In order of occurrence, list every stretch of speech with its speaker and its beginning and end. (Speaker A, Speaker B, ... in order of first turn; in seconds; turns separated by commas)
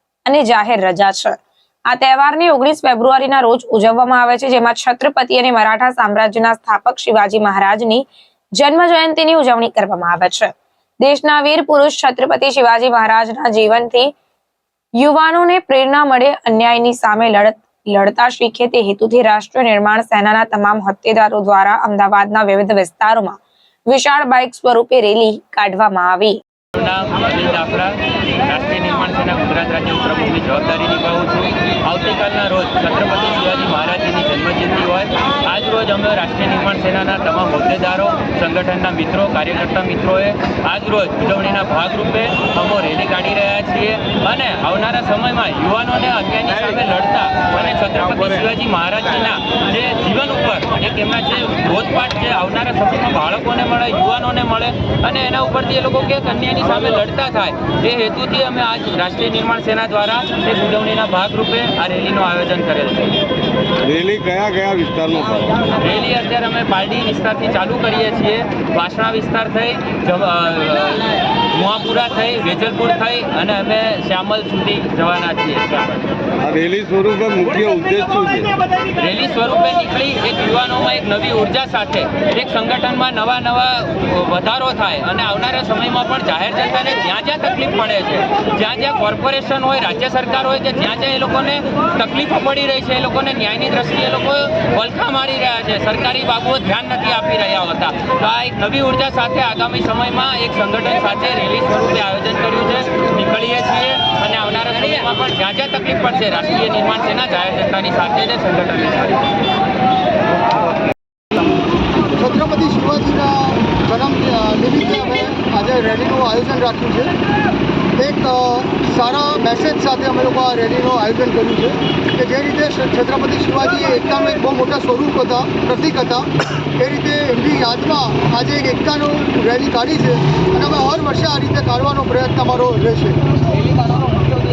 Speaker A: 0.3-8.1, Speaker A: 8.6-14.1, Speaker A: 15.0-26.4, Speaker B: 26.8-63.2, Speaker C: 63.8-65.7, Speaker B: 65.7-75.9, Speaker C: 76.4-78.6, Speaker B: 79.0-109.2, Speaker D: 112.2-117.1, Speaker D: 118.0-133.2